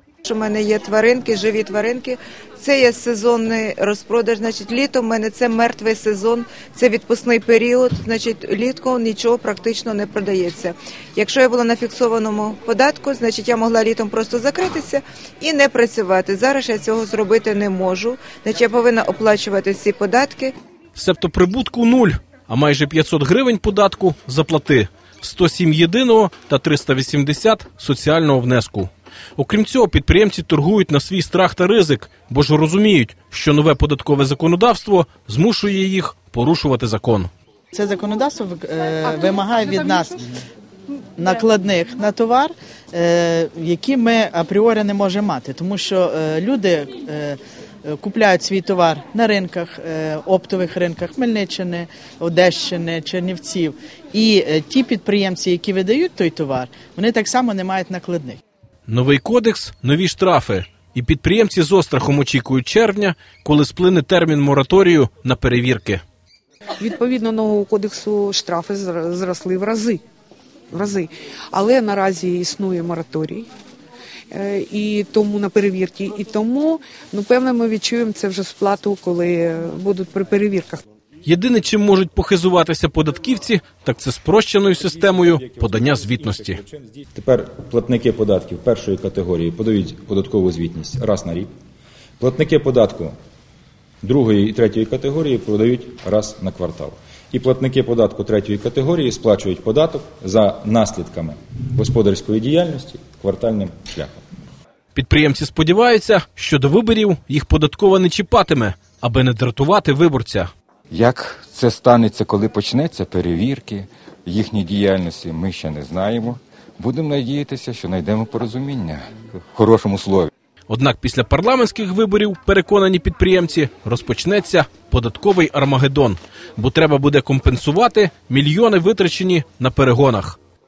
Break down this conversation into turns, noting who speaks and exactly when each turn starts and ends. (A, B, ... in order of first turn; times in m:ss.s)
0:00.2-0:20.5 A
0:20.9-0:37.3 B
0:37.7-0:40.2 C
0:41.2-0:58.4 C
0:58.9-1:06.0 B
1:06.8-1:10.0 D
1:10.7-1:13.5 D
1:14.3-1:20.8 D
1:21.2-1:26.6 B
1:24.7-1:31.5 E
1:32.2-1:33.1 E
1:34.0-1:44.2 E
1:44.9-1:50.5 B
1:50.9-2:00.3 F
2:00.7-2:10.4 B